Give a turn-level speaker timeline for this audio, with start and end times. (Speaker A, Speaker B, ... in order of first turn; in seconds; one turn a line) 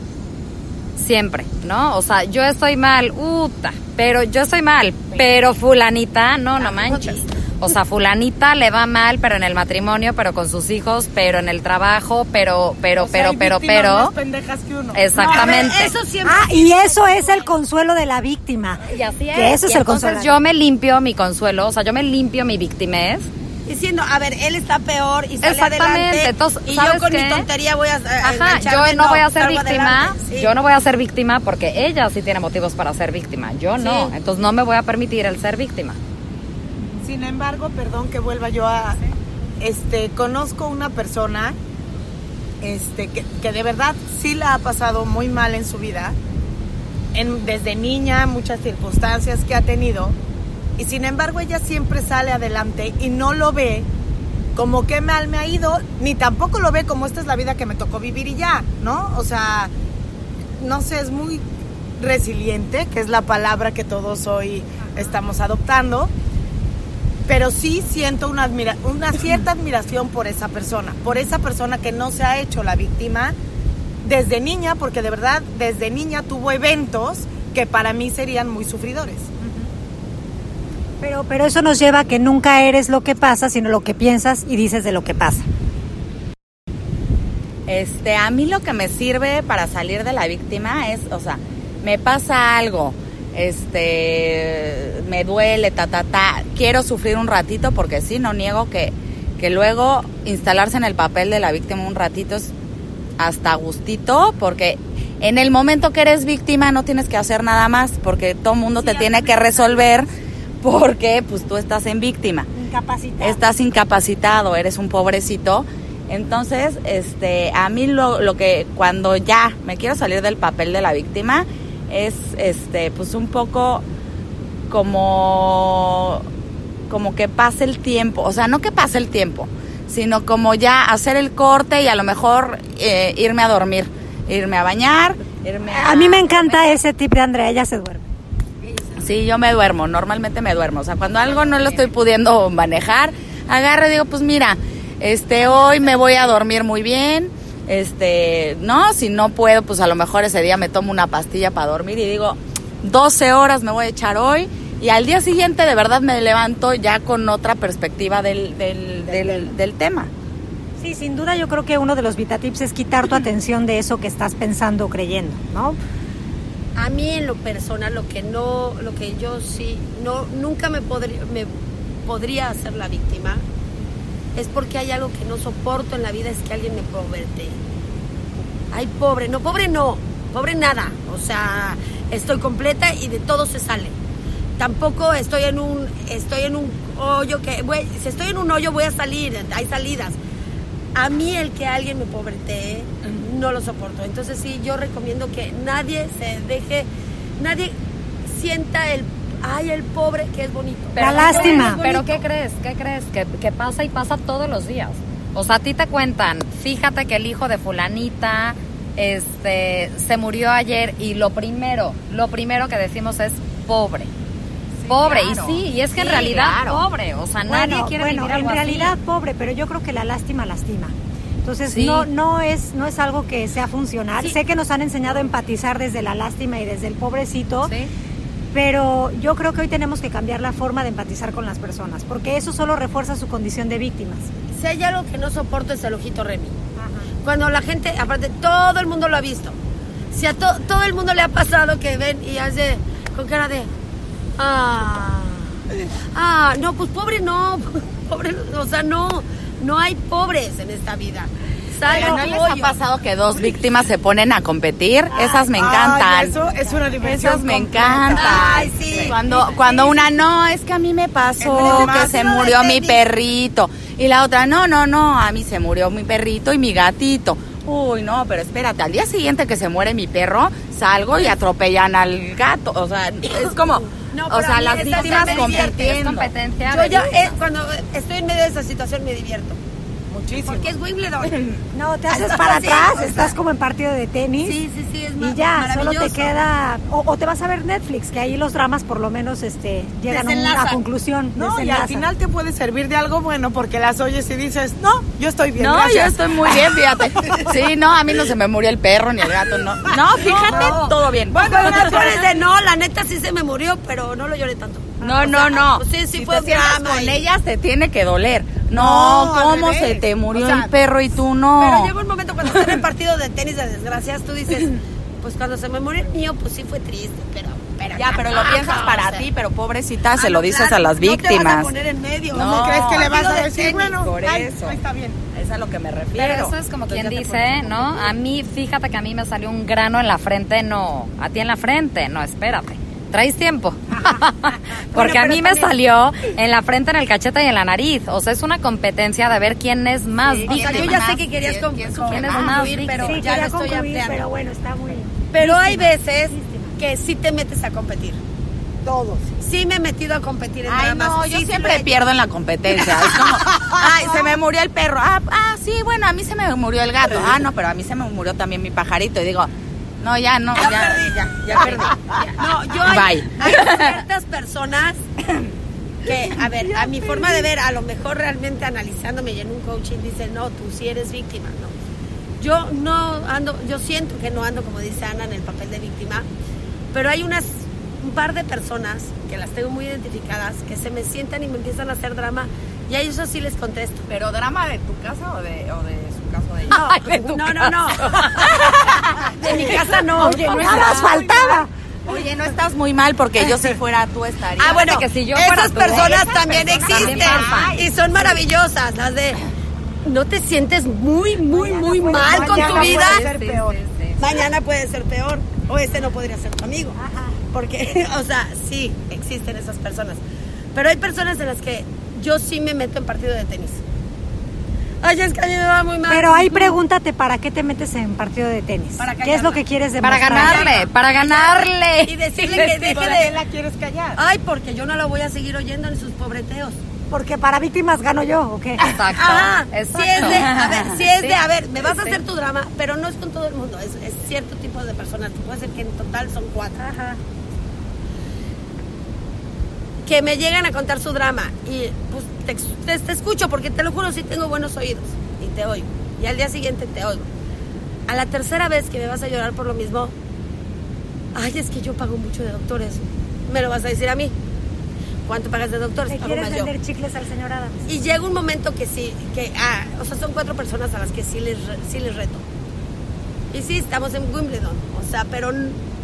Speaker A: 1.0-14.1
Speaker B: 6.6-7.4
Speaker C: 13.0-15.1
Speaker A: 14.9-15.9
Speaker B: 15.1-17.5
Speaker D: 16.2-18.8
Speaker A: 18.8-23.3
Speaker D: 19.3-20.3
Speaker B: 23.7-30.5
Speaker A: 25.4-27.4
Speaker A: 28.2-36.0
Speaker B: 33.8-34.1
Speaker C: 37.0-41.5
Speaker C: 42.6-46.1
Speaker C: 47.1-50.1
Speaker C: 50.8-53.9
Speaker C: 54.5-59.7
Speaker C: 60.6-61.4
Speaker C: 62.0-66.1
Speaker C: 67.3-73.3
Speaker C: 74.0-79.3
Speaker D: 79.4-79.7
Speaker D: 81.0-85.5
Speaker E: 87.7-102.5
Speaker E: 103.2-112.5
Speaker B: 108.7-110.1
Speaker D: 112.5-113.4
Speaker E: 113.2-123.8
Speaker E: 124.7-126.2
Speaker E: 126.9-136.6
Speaker D: 135.7-138.0
Speaker B: 138.6-139.1
Speaker E: 139.0-160.1
Speaker B: 141.1-141.8
Speaker B: 145.4-146.4
Speaker B: 159.1-159.5
Speaker D: 160.8-165.8
Speaker B: 166.8-171.5
Speaker B: 172.0-173.4
Speaker B: 174.3-177.6
Speaker B: 178.7-183.9
Speaker B: 184.6-190.2
Speaker B: 190.9-197.7
Speaker B: 198.3-202.2
Speaker A: 200.9-214.1
Speaker D: 201.0-201.8
Speaker E: 214.8-216.8
Speaker A: 214.9-218.9
Speaker D: 217.4-227.7
Speaker A: 221.7-222.1
Speaker A: 227.7-227.9
Speaker D: 228.5-234.3
Speaker B: 234.5-236.5
Speaker D: 236.8-237.1
Speaker B: 237.2-239.6
Speaker B: 240.1-243.7
Speaker B: 244.4-245.5
Speaker B: 246.1-252.8
Speaker C: 251.8-252.4
Speaker E: 251.8-256.3
Speaker C: 255.2-259.1
Speaker E: 257.0-276.3
Speaker B: 258.1-260.1
Speaker C: 261.4-262.9
Speaker B: 261.5-262.2
Speaker B: 274.0-275.9
Speaker A: 274.9-277.3
Speaker B: 276.7-279.6
Speaker C: 280.1-280.8
Speaker B: 280.4-281.5
Speaker D: 281.7-284.6
Speaker B: 282.1-283.3
Speaker B: 284.4-286.3
Speaker D: 285.2-292.1
Speaker C: 290.1-290.8
Speaker C: 291.3-297.5
Speaker E: 295.6-302.1
Speaker C: 299.9-302.3
Speaker B: 300.2-307.2
Speaker E: 305.0-311.9
Speaker C: 308.7-310.7
Speaker B: 311.6-319.2
Speaker E: 312.4-312.7
Speaker E: 317.9-321.7
Speaker B: 320.1-323.5
Speaker E: 322.3-324.8
Speaker C: 322.3-325.2
Speaker E: 325.3-328.1
Speaker A: 326.1-341.1
Speaker D: 334.0-334.2
Speaker B: 334.9-335.7
Speaker E: 340.2-342.8
Speaker B: 340.4-344.2
Speaker A: 342.1-343.2
Speaker D: 343.0-346.7
Speaker B: 345.3-348.2
Speaker C: 348.8-349.3
Speaker B: 349.4-351.9
Speaker E: 350.6-359.5
Speaker C: 352.8-354.3
Speaker E: 360.0-363.9
Speaker B: 360.6-365.0
Speaker B: 366.0-371.7
Speaker C: 367.1-367.4
Speaker B: 372.4-376.3
Speaker B: 376.9-384.1
Speaker E: 384.1-386.8
Speaker B: 386.7-388.2
Speaker A: 386.7-388.4
Speaker E: 388.0-391.3
Speaker B: 389.2-391.1
Speaker A: 390.3-390.8
Speaker D: 390.4-391.7
Speaker C: 390.6-391.1
Speaker E: 392.1-395.0
Speaker B: 394.6-399.4
Speaker A: 394.7-396.2
Speaker C: 395.4-397.0
Speaker E: 395.9-398.3
Speaker A: 396.8-397.8
Speaker B: 400.0-403.2
Speaker D: 401.7-402.9
Speaker A: 402.0-404.4
Speaker C: 402.1-403.8
Speaker B: 404.2-407.0
Speaker D: 407.0-407.4
Speaker B: 407.5-410.2
Speaker B: 410.7-413.8
Speaker B: 415.0-416.8
Speaker D: 416.1-420.7
Speaker B: 419.0-419.6
Speaker A: 420.0-423.0
Speaker B: 420.2-423.3
Speaker C: 420.4-420.8
Speaker C: 422.5-424.2
Speaker B: 424.2-426.8
Speaker D: 427.1-428.8
Speaker A: 428.8-432.2
Speaker B: 429.1-436.9
Speaker D: 436.8-437.2
Speaker B: 440.1-447.3
Speaker B: 448.1-450.1
Speaker B: 451.3-454.3
Speaker B: 455.3-456.7
Speaker D: 456.1-457.9
Speaker B: 457.9-462.4
Speaker B: 463.5-465.8